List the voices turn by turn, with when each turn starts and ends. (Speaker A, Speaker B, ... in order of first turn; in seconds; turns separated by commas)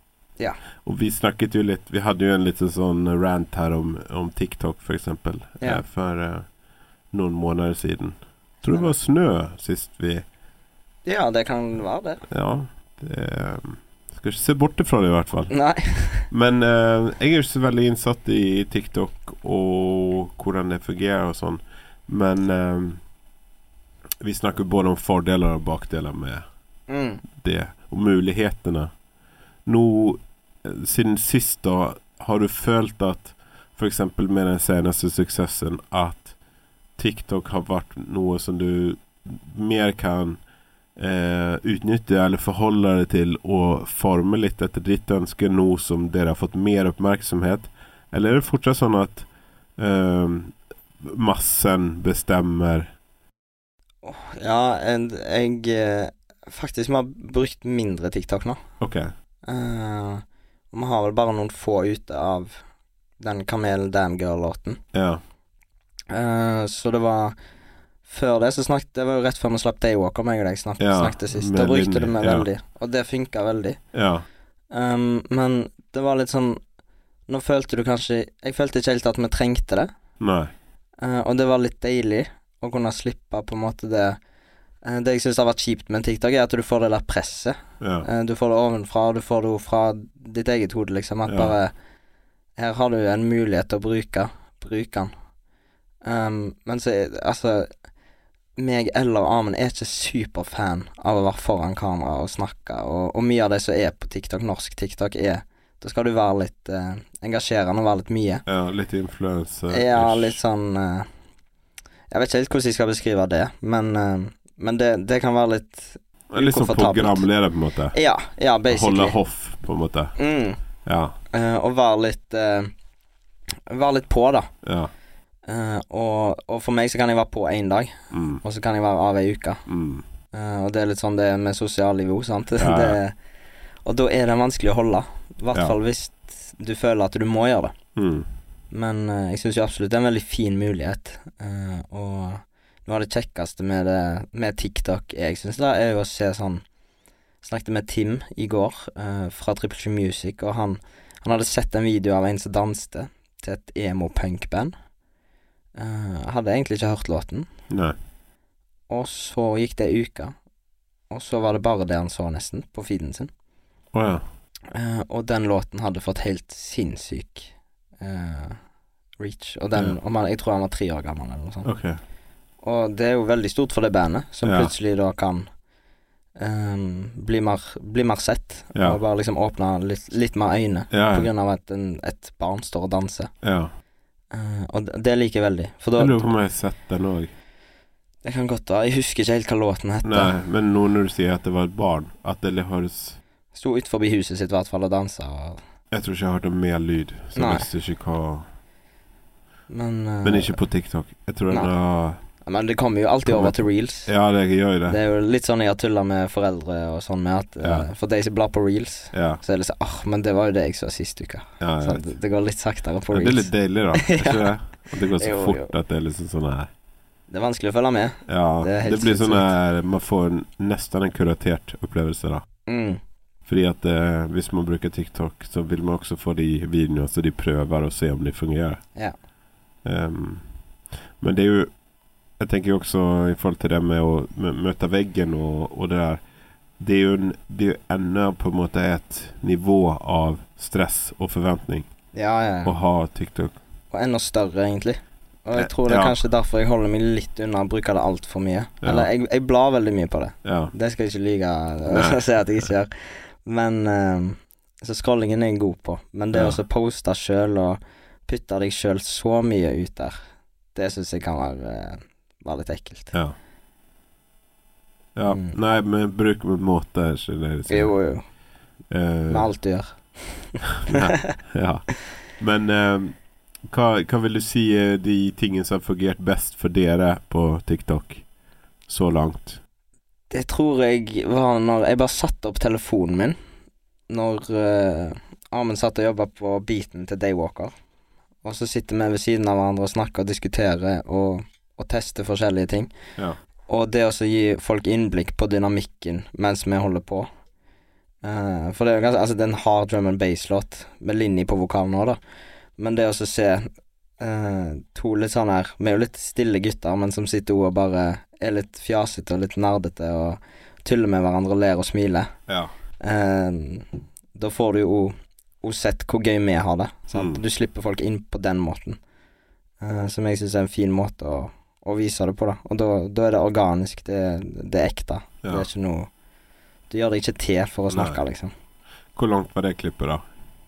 Speaker A: 0.8-6.5, Speaker A: 7.1-10.2, Speaker B: 11.1-12.2, Speaker A: 12.3-15.5, Speaker B: 15.5-16.3, Speaker A: 16.3-23.0, Speaker A: 24.2-26.4, Speaker B: 26.9-27.2, Speaker A: 27.3-28.9, Speaker A: 29.7-36.4, Speaker A: 37.0-40.4, Speaker A: 41.0-49.3, Speaker A: 49.8-52.9, Speaker B: 54.0-58.6, Speaker A: 58.8-59.1, Speaker B: 59.5-62.6, Speaker B: 63.2-64.8, Speaker A: 64.9-65.2, Speaker B: 66.1-67.3, Speaker B: 68.1-73.8, Speaker A: 70.8-72.5, Speaker A: 73.9-74.2, Speaker B: 74.7-76.6, Speaker B: 77.3-79.9, Speaker A: 80.2-80.5, Speaker B: 81.0-84.2, Speaker B: 84.8-91.7, Speaker A: 87.8-88.1, Speaker A: 91.3-91.5, Speaker B: 92.6-95.1, Speaker B: 96.0-97.7, Speaker B: 98.6-108.4, Speaker A: 108.5-110.4, Speaker B: 109.7-111.1, Speaker B: 112.1-117.3, Speaker A: 116.3-118.0, Speaker B: 117.9-119.2, Speaker A: 118.7-120.1, Speaker B: 120.2-120.6, Speaker A: 120.8-121.2, Speaker B: 121.3-122.7, Speaker B: 123.7-124.5, Speaker A: 124.6-124.9, Speaker B: 125.5-129.6, Speaker A: 128.1-128.4, Speaker A: 129.7-130.0, Speaker B: 130.3-133.2, Speaker A: 132.6-133.0, Speaker B: 133.8-137.7, Speaker A: 138.0-138.3, Speaker B: 138.7-146.6, Speaker B: 147.4-154.7, Speaker B: 155.8-157.5, Speaker A: 157.7-157.9, Speaker B: 158.9-160.3, Speaker B: 161.1-163.3, Speaker A: 163.9-164.2, Speaker B: 164.7-168.6, Speaker B: 169.2-171.7, Speaker A: 171.7-172.0, Speaker B: 172.6-175.5, Speaker A: 174.4-174.7, Speaker B: 176.4-183.3, Speaker A: 178.8-179.0, Speaker A: 180.9-181.3, Speaker A: 183.4-183.7, Speaker B: 184.3-186.3, Speaker A: 186.0-187.3, Speaker B: 188.2-190.3, Speaker A: 190.0-193.2, Speaker B: 193.5-195.6, Speaker A: 195.9-198.4, Speaker B: 197.3-197.7, Speaker B: 199.7-200.6, Speaker A: 200.2-202.2, Speaker B: 202.4-204.1, Speaker A: 203.3-205.0, Speaker B: 204.9-214.5, Speaker A: 207.6-207.9, Speaker A: 209.1-209.4, Speaker A: 211.6-212.1, Speaker A: 213.1-216.7, Speaker B: 215.2-215.7, Speaker B: 217.3-219.5, Speaker A: 218.3-222.4, Speaker B: 222.7-223.0, Speaker A: 223.5-228.8, Speaker A: 229.8-230.4, Speaker A: 231.2-231.7, Speaker A: 232.4-236.2, Speaker A: 236.8-241.9, Speaker B: 242.1-242.7, Speaker A: 242.6-243.6, Speaker B: 243.9-260.2, Speaker A: 245.6-246.2, Speaker A: 248.8-249.1, Speaker A: 250.4-250.7, Speaker A: 251.9-252.2, Speaker A: 256.3-256.6, Speaker B: 260.8-263.1, Speaker A: 265.1-267.9, Speaker B: 265.3-265.6, Speaker B: 267.7-268.2, Speaker A: 268.9-269.5, Speaker B: 269.3-271.4, Speaker A: 270.7-278.2, Speaker A: 278.9-279.6, Speaker B: 280.3-283.4, Speaker B: 284.1-287.7, Speaker B: 288.4-292.9, Speaker B: 293.7-297.3, Speaker B: 298.2-302.2, Speaker B: 302.8-303.7, Speaker B: 304.2-312.3, Speaker B: 313.0-319.0, Speaker A: 317.1-317.4, Speaker B: 319.8-326.1, Speaker B: 326.9-328.5, Speaker A: 327.9-328.2, Speaker A: 329.1-330.2